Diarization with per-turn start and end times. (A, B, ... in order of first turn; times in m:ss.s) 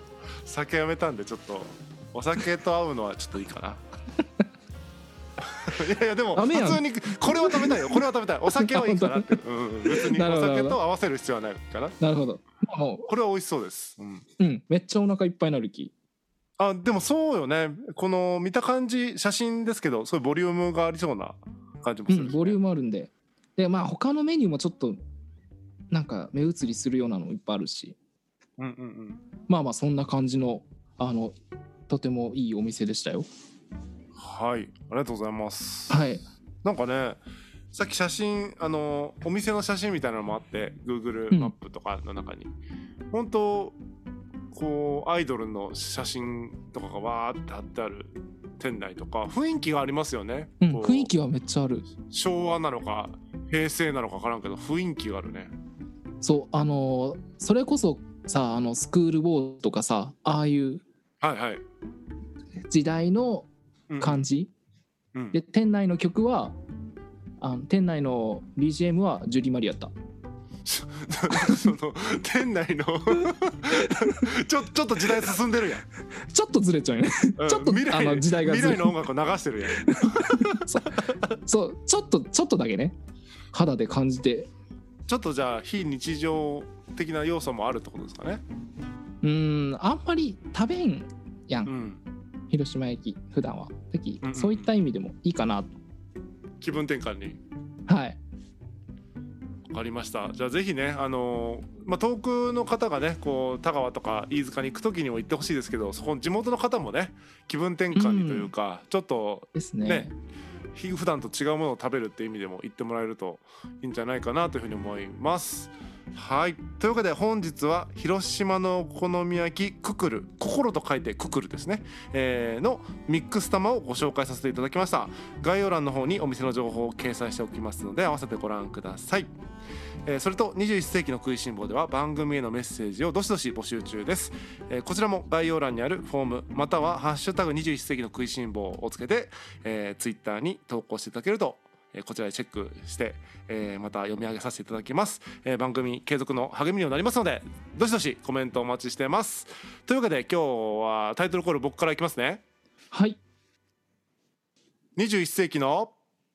0:00.4-0:03.8 A
0:05.4-0:11.9 A
0:06.3-0:10.8 B
0:12.0-0:13.1 B
0:13.1-0:14.2 A
0:14.4-0:15.9 B
0:16.6-0:22.6 A
0:22.1-0:25.0 B
0:25.9-0:28.0 B
0:28.6-0:29.2 A
0:29.5-0:31.3 B
0:31.9-0:33.3 B
0:34.1-0:36.0 A
0:35.9-0:36.2 B
0:36.6-0:37.2 A
0:37.7-0:42.5 A
0:43.1-0:43.8 A
0:44.5-0:51.1 A
0:50.6-0:51.8 B
0:52.1-0:55.5 A
0:56.2-1:00.8 B
1:01.2-1:01.6 A
1:02.7-1:03.5 B
1:03.9-1:04.2 A
1:04.0-1:04.5 B
1:05.3-1:06.6 B
1:07.4-1:09.9 B
1:10.6-1:15.8 A
1:16.3-1:19.0 B
1:17.4-1:21.2 A
1:19.8-1:23.0 B
1:23.5-1:24.5 B
1:25.1-1:28.4 A
1:29.2-1:31.7 B
1:31.7-1:32.0 A
1:32.5-1:35.7 B
1:34.2-1:34.7 A
1:36.6-1:37.4 A
1:37.9-1:38.2 B
1:39.7-1:50.1 A
1:47.9-1:48.5 B
1:49.5-1:50.1 B
1:50.7-2:09.3 A
2:10.0-2:32.4 A
2:32.9-2:33.2 B
2:35.0-2:35.9 A